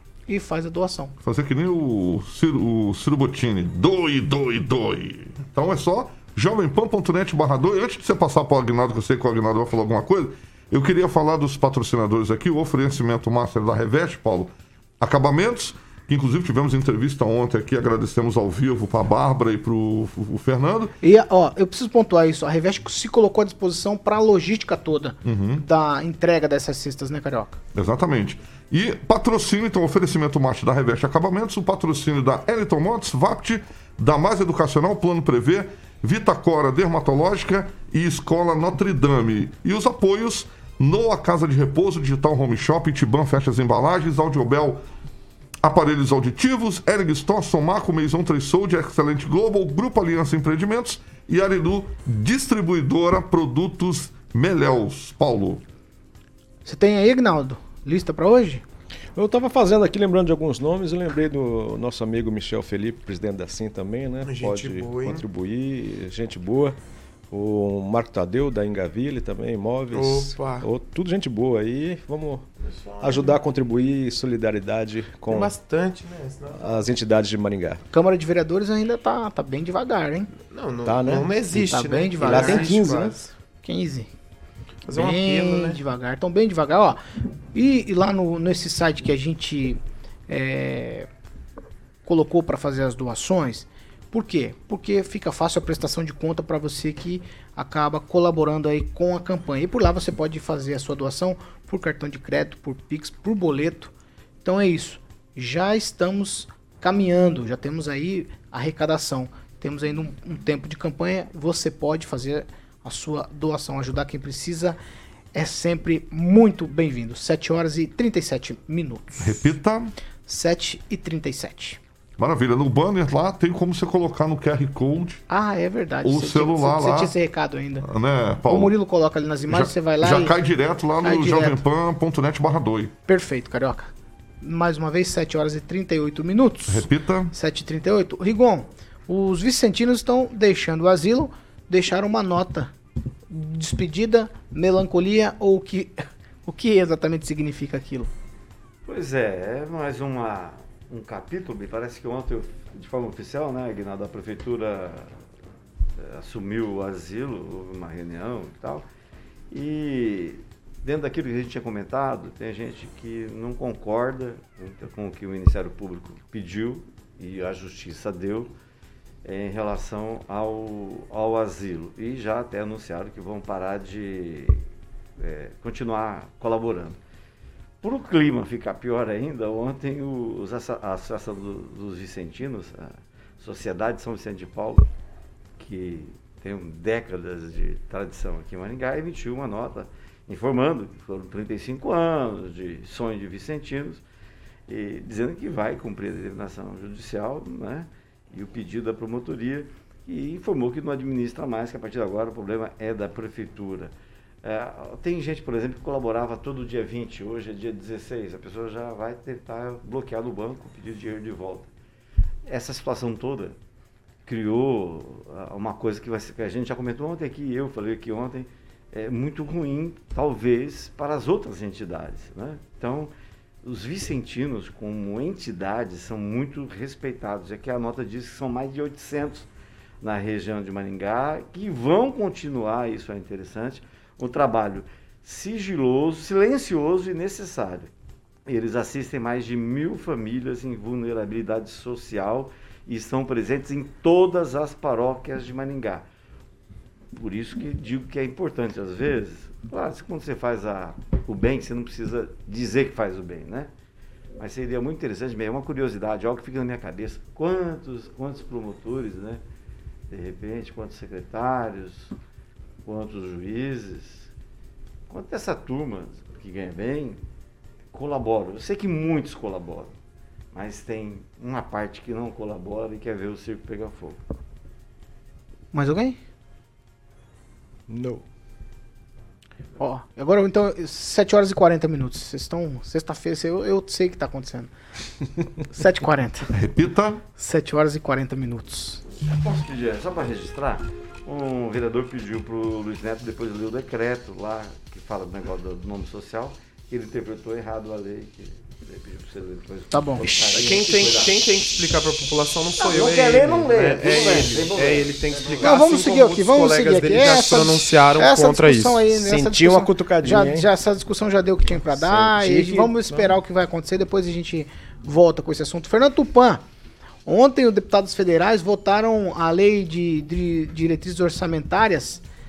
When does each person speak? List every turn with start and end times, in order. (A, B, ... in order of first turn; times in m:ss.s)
0:00.3-0:01.1 A
0:01.2-0:20.9 B
0:21.0-0:27.6 A
0:25.2-0:25.6 B
0:27.8-0:44.8 B
0:45.6-0:55.6 B
0:56.6-0:58.6 A
0:59.2-1:06.8 C
1:04.2-1:05.2 D
1:07.3-1:12.5 C
1:09.9-1:10.7 D
1:12.6-1:13.4 D
1:13.0-1:15.5 C
1:15.3-1:17.0 D
1:16.5-1:17.8 C
1:17.9-1:20.3 A
1:20.5-1:23.3 D
1:20.8-1:21.4 C
1:21.5-1:23.1 A
1:22.2-1:23.2 C
1:23.6-1:24.1 A
1:24.9-1:25.8 D
1:24.9-1:27.0 A
1:27.5-1:31.1 A
1:32.0-1:43.9 A
1:44.4-1:54.8 A
1:55.3-1:59.5 A
1:59.2-1:59.9 B
2:00.3-2:01.8 A
2:02.2-2:05.2 B
2:05.3-2:07.9 A
2:06.0-2:07.2 B
2:07.8-2:08.8 B
2:08.5-2:10.3 A
2:09.5-2:12.9 B
2:11.0-2:11.6 A
2:13.1-2:22.7 A
2:16.7-2:17.3 B
2:23.3-2:28.1 A
2:28.8-2:35.2 E
2:36.0-2:38.8 E
2:39.5-2:48.5 E
2:49.2-2:54.6 E
2:55.2-2:57.0 E
2:57.8-3:04.9 E
3:05.6-3:14.0 E
3:14.7-3:23.9 E
3:24.4-3:31.7 E
3:32.5-3:33.6 E
3:34.2-3:43.1 E
3:43.6-3:49.5 E
3:50.0-3:57.9 E
3:58.5-4:06.1 E
4:07.2-4:13.7 E
4:14.4-4:19.4 E
4:20.1-4:22.1 E
4:22.8-4:24.3 E
4:25.1-4:27.2 E
4:27.9-4:29.9 E
4:30.5-4:34.2 E
4:35.7-4:36.2 A
4:37.9-4:38.2 C
4:39.8-4:44.7 A
4:45.7-4:46.5 A
4:46.5-4:47.2 B
4:47.4-4:49.0 A
4:49.3-5:01.4 E
4:59.9-5:00.3 A
5:00.5-5:09.1 D
5:02.8-5:05.8 E
5:05.6-5:16.6 A
5:09.1-5:10.7 C
5:11.9-5:13.3 C
5:17.3-5:22.2 A